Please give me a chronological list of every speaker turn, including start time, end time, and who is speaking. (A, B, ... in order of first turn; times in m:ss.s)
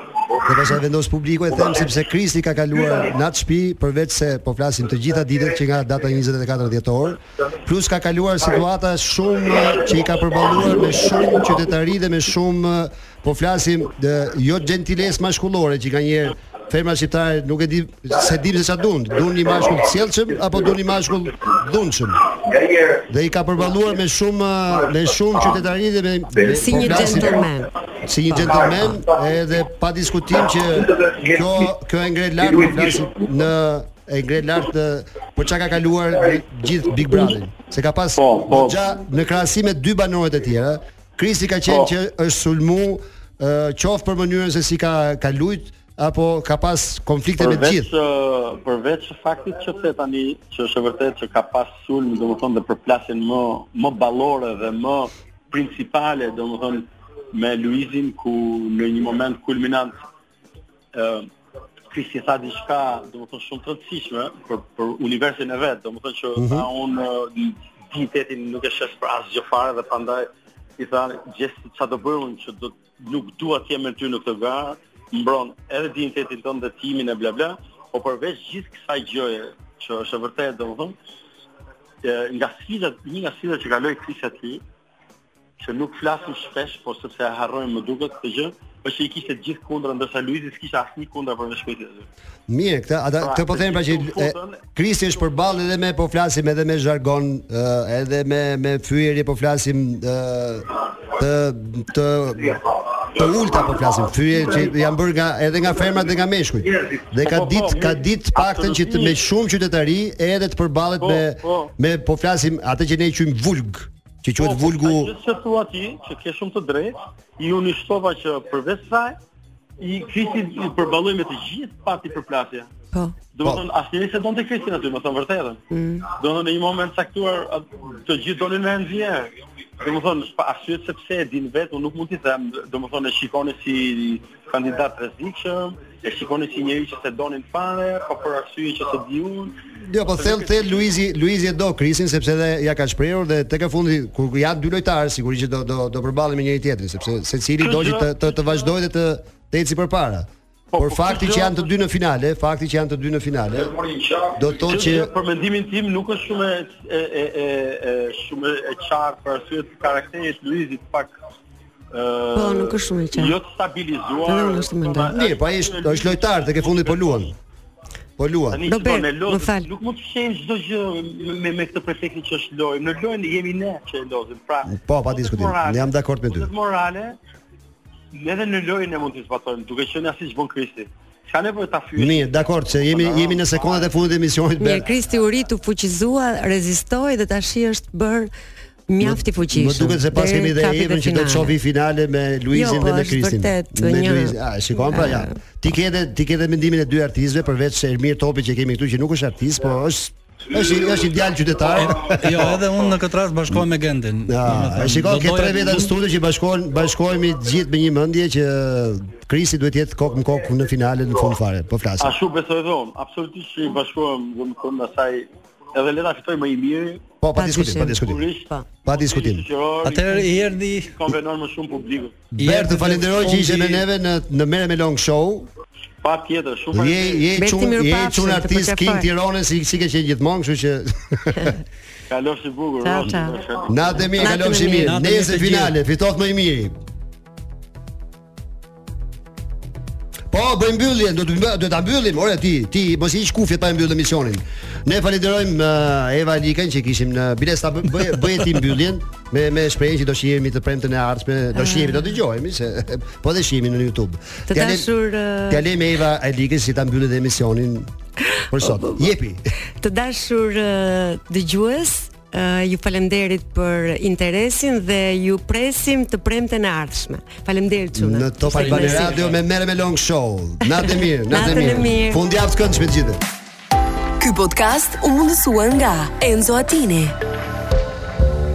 0:00.4-0:22.3 A
0:23.0-0:27.4 A
0:26.5-0:27.7 B
0:28.0-0:47.9 A
0:28.3-0:28.9 B
0:38.2-0:38.8 C
0:41.6-0:41.9 C
0:47.4-1:00.0 C
1:00.9-1:01.3 C
1:01.9-1:21.0 C
1:06.4-1:06.6 A
1:22.0-1:24.6 C
1:25.6-1:32.1 C
1:32.5-1:55.1 A
1:33.2-1:34.6 C
1:47.2-1:49.2 C
1:51.0-1:51.7 C
1:54.4-1:59.2 C
1:59.8-2:02.7 C
2:03.3-2:20.8 C
2:05.7-2:06.1 B
2:19.9-2:30.3 A
2:27.6-2:28.7 C
2:30.7-2:31.7 C
2:30.8-2:33.8 A
2:33.8-2:41.1 C
2:34.3-2:35.1 A
2:41.9-2:47.3 C
2:42.3-2:43.4 B
2:44.2-2:45.1 B
2:45.1-2:47.3 A
2:48.2-2:48.6 A
2:48.5-2:57.2 C
2:48.7-2:49.6 B
2:54.7-2:56.5 A
2:58.1-3:04.0 C
3:02.0-3:04.8 A
3:04.6-3:08.3 B
3:08.9-3:11.5 B
3:09.0-3:22.6 A
3:12.5-3:15.4 B
3:21.7-3:25.9 D
3:22.4-3:23.0 C
3:24.3-3:32.2 A
3:32.0-3:37.0 C
3:37.2-3:38.3 A
3:37.3-3:38.7 B
3:37.9-3:42.2 C
3:38.8-3:39.4 A
3:39.8-3:41.0 D
3:42.3-3:45.5 A
3:42.4-3:43.7 D
3:46.0-3:47.3 C
3:46.7-3:51.6 A
3:47.4-3:49.1 B
3:52.1-3:54.5 C
3:52.8-3:53.4 B
3:53.7-3:56.8 A
3:54.2-3:54.9 B
3:54.7-3:55.7 D
4:00.3-4:14.9 A
4:11.6-4:12.0 B
4:14.5-4:15.6 B
4:15.5-4:17.9 A
4:18.5-4:19.4 A
4:18.6-4:19.1 B
4:19.8-4:29.2 B
4:27.9-4:33.2 A
4:28.9-4:29.4 C
4:30.7-4:32.2 B
4:34.2-4:37.1 E